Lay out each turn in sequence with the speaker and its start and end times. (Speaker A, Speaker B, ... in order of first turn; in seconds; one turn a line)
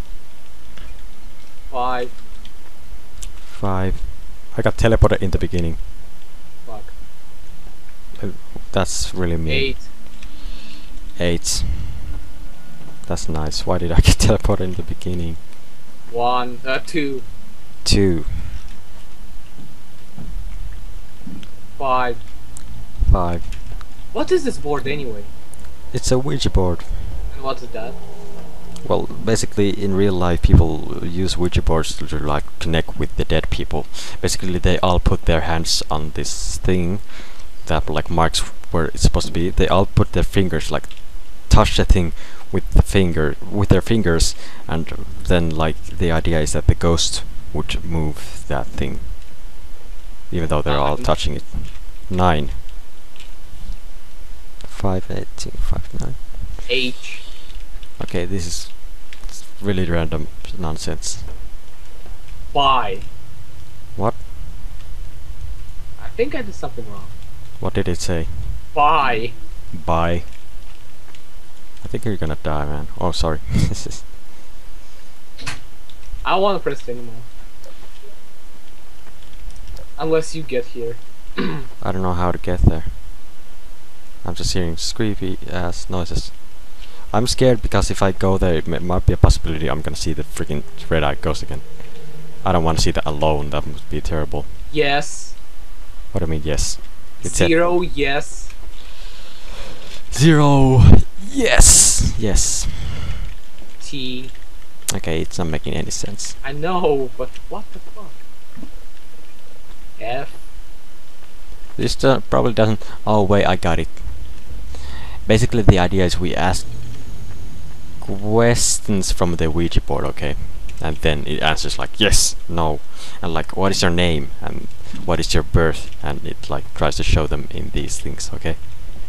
Speaker A: 1.7-2.1
Speaker B: 3.5-5.8
Speaker A: 6.6-7.0
Speaker B: 8.2-9.8
Speaker A: 9.5-9.9
Speaker B: 11.2-12.1
Speaker B: 13.1-15.4
Speaker A: 16.1-17.3
Speaker B: 17.8-18.6
Speaker A: 21.8-22.2
Speaker B: 23.0-23.5
Speaker A: 24.1-25.3
Speaker B: 25.9-27.2
Speaker A: 27.3-28.0
Speaker B: 28.8-49.2
Speaker B: 50.3-52.6
Speaker A: 50.6-51.2
Speaker B: 54.6-56.4
Speaker A: 56.7-57.3
Speaker B: 58.0-61.3
Speaker A: 62.5-63.1
Speaker B: 64.0-64.2
Speaker A: 66.0-67.2
Speaker B: 67.6-68.6
Speaker A: 68.7-69.4
Speaker B: 69.7-70.3
Speaker B: 71.8-74.1
Speaker A: 76.2-77.3
Speaker A: 80.0-81.7
Speaker B: 81.8-83.0
Speaker B: 84.2-94.5
Speaker A: 94.7-95.4
Speaker B: 96.1-97.7
Speaker A: 97.2-98.5
Speaker B: 100.1-103.2
Speaker A: 103.8-104.3
Speaker B: 104.9-106.4
Speaker A: 106.4-108.2
Speaker A: 110.0-110.4
Speaker B: 111.8-114.7
Speaker B: 115.2-116.7
Speaker B: 118.0-128.6